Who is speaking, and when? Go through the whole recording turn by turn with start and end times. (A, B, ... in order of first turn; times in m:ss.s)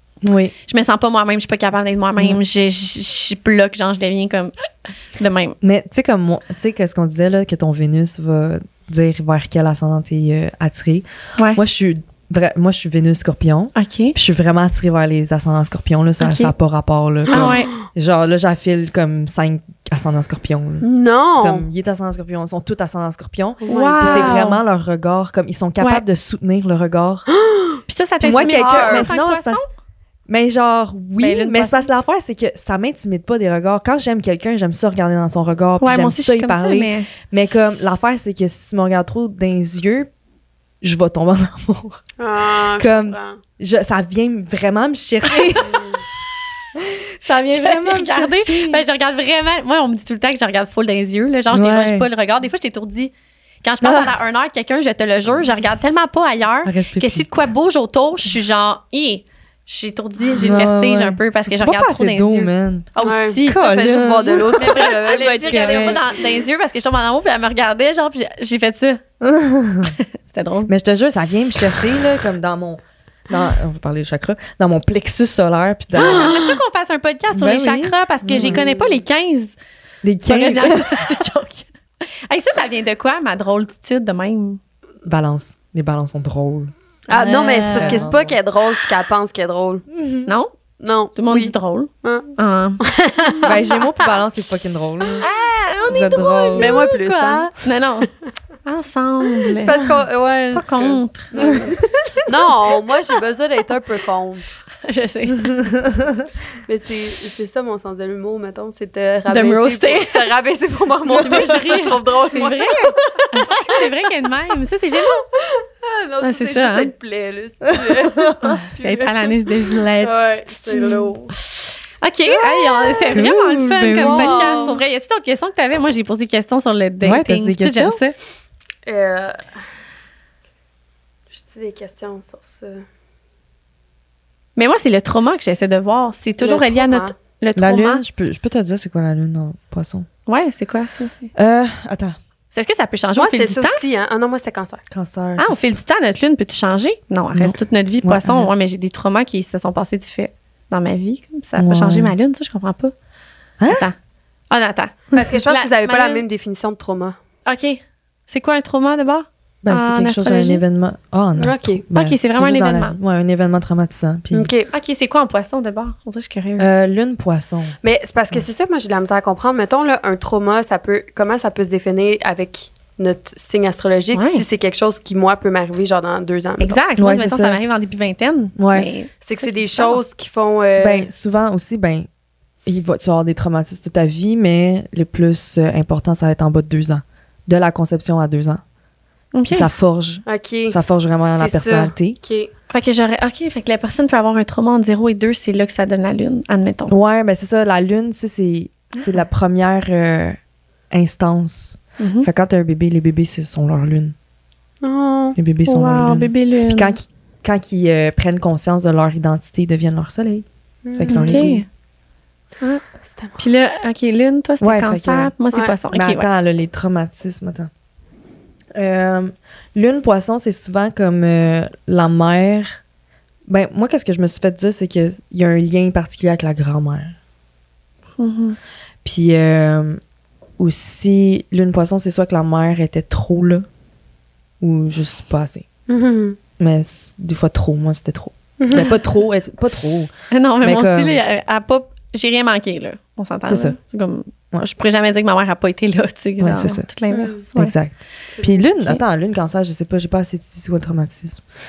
0:00.2-0:00.5 A
0:00.7-0:05.6 B
0:05.6-0:20.8 A
0:13.7-0:14.2 B
0:16.2-0:16.5 B
0:17.3-0:17.7 C
0:17.3-0:17.7 B
0:20.8-0:21.6 C
0:21.4-0:27.3 A
0:23.6-0:24.4 C
0:23.7-0:24.6 B
0:25.8-0:26.0 B
0:27.3-0:29.1 C
0:27.9-0:29.7 B
0:28.2-0:29.6 A
0:30.3-0:40.1 A
0:31.2-0:31.9 B
0:35.8-0:37.1 B
0:40.8-0:42.0 A
0:42.2-0:43.4 C
0:42.6-0:45.8 A
0:45.6-0:46.0 C
0:46.7-0:48.8 A
0:47.5-1:09.0 B
0:51.5-0:52.1 A
0:53.8-0:54.1 A
0:56.6-0:57.3 A
1:00.3-1:06.0 A
1:03.0-1:06.2 C
1:09.2-1:10.0 A
1:10.0-1:10.7 B
1:10.7-1:16.4 A
1:16.0-1:19.5 B
1:17.3-1:18.6 A
1:18.4-1:19.0 C
1:20.0-1:21.0 A
1:20.2-1:24.6 B
1:25.0-1:26.7 A
1:27.1-1:28.1 B
1:27.1-1:29.8 C
1:27.7-1:28.4 A
1:29.9-1:30.3 A
1:30.2-1:30.5 B
1:30.8-1:33.6 C
1:31.1-1:32.8 B
1:33.4-1:35.3 A
1:35.2-1:38.1 B
1:35.9-1:36.8 A
1:36.5-1:37.5 C
1:38.6-1:39.9 B
1:39.4-1:44.5 C
1:40.5-1:41.7 B
1:44.8-1:45.5 B
1:45.4-1:46.3 A
1:46.6-1:53.5 C
1:49.3-1:50.3 B
1:51.1-1:55.3 B
1:55.3-1:59.3 C
1:56.2-1:56.9 B
1:57.8-1:58.6 A
1:58.7-2:00.8 B
2:00.0-2:01.3 C
2:01.4-2:08.2 B
2:03.1-2:04.7 A
2:04.0-2:04.8 C
2:07.0-2:08.0 A
2:08.8-2:09.4 C
2:11.3-2:12.8 C
2:14.6-2:18.0 B
2:16.4-2:17.1 C
2:17.6-2:20.0 A
2:20.3-2:21.3 B
2:21.3-2:22.2 A
2:22.5-2:23.8 B
2:23.2-2:24.8 C
2:24.9-2:25.6 A
2:25.4-2:32.9 B
2:27.3-2:28.6 A
2:31.6-2:32.1 A
2:33.6-2:33.9 A
2:33.7-2:33.9 B
2:34.5-2:36.2 B
2:35.1-2:37.2 C
2:37.4-2:40.6 B
2:39.6-2:44.5 A
2:41.4-2:41.8 C
2:41.9-2:43.0 B
2:44.3-2:44.7 C
2:44.7-2:46.7 B
2:46.6-2:47.8 A
2:47.8-2:56.8 C
2:54.1-2:54.4 B
2:56.6-3:00.0 B
2:57.0-2:57.6 A
2:58.6-2:58.9 A
2:59.2-3:01.1 C
3:00.8-3:02.1 A
3:02.6-3:08.6 A
3:09.3-3:09.7 B
3:09.5-3:12.2 A
3:10.2-3:10.8 C
3:11.4-3:12.5 C
3:12.7-3:16.9 B
3:16.9-3:20.4 A
3:20.9-3:24.1 A
3:22.0-3:22.3 B
3:24.8-3:25.4 C
3:25.4-3:30.4 A
3:25.6-3:27.0 B
3:30.8-3:31.5 C
3:31.0-3:31.6 A
3:31.1-3:31.6 B
3:33.0-3:33.4 C
3:33.4-3:36.3 B
3:34.6-3:35.3 A
3:35.9-3:37.7 A
3:38.7-3:42.8 A
3:43.5-3:47.1 A
3:48.2-3:48.6 B
3:49.0-3:50.0 A
3:50.6-3:53.6 A
3:54.6-3:55.6 A
3:55.9-3:56.4 C
3:56.6-4:00.1 A
3:58.6-3:59.0 C
4:00.3-4:07.7 B
4:00.6-4:01.2 A
4:03.5-4:03.8 A
4:06.4-4:06.9 A
4:07.1-4:07.4 C
4:07.5-4:11.4 A
4:08.3-4:08.6 C